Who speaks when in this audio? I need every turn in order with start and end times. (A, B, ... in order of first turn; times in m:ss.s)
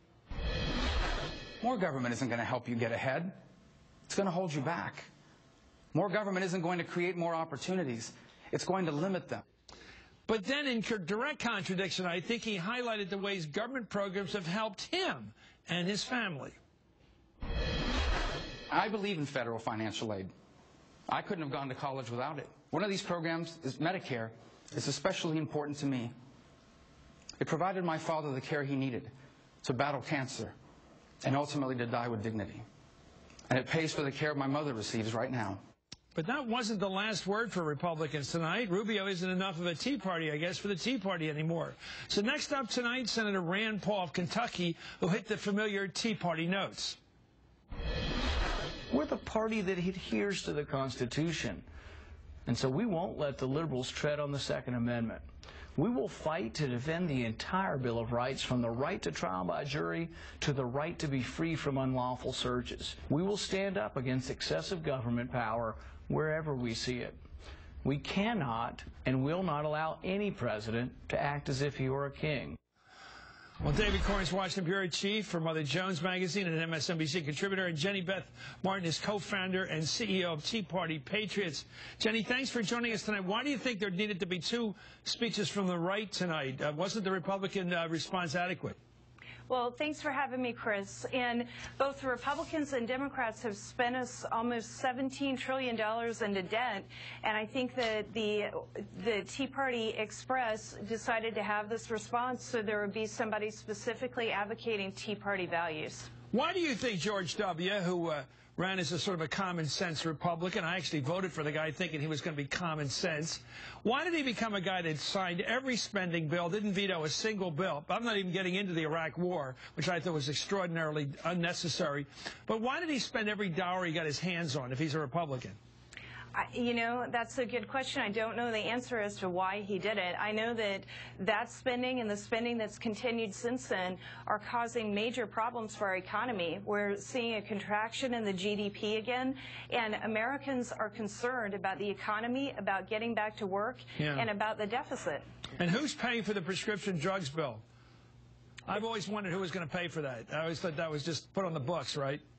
0:01.6-0:03.4 A
0:04.1-0:05.1 A
0:05.9-0:09.4 A
0:10.3-0:16.6 B
0:18.7-0:20.3 A
0:21.1-0:26.1 A
0:27.4-0:29.1 A
0:29.6-0:30.5 A
0:31.2-0:32.6 A
0:33.5-0:35.6 A
0:36.2-0:47.0 B
0:48.9-0:51.6 C
0:52.5-1:07.2 C
1:07.8-1:12.6 C
1:13.6-1:28.8 B
1:29.5-1:46.1 D
1:46.3-2:05.6 B
2:06.3-2:25.2 D
2:24.0-2:24.3 B
2:25.6-2:27.6 B
2:28.7-2:32.2 B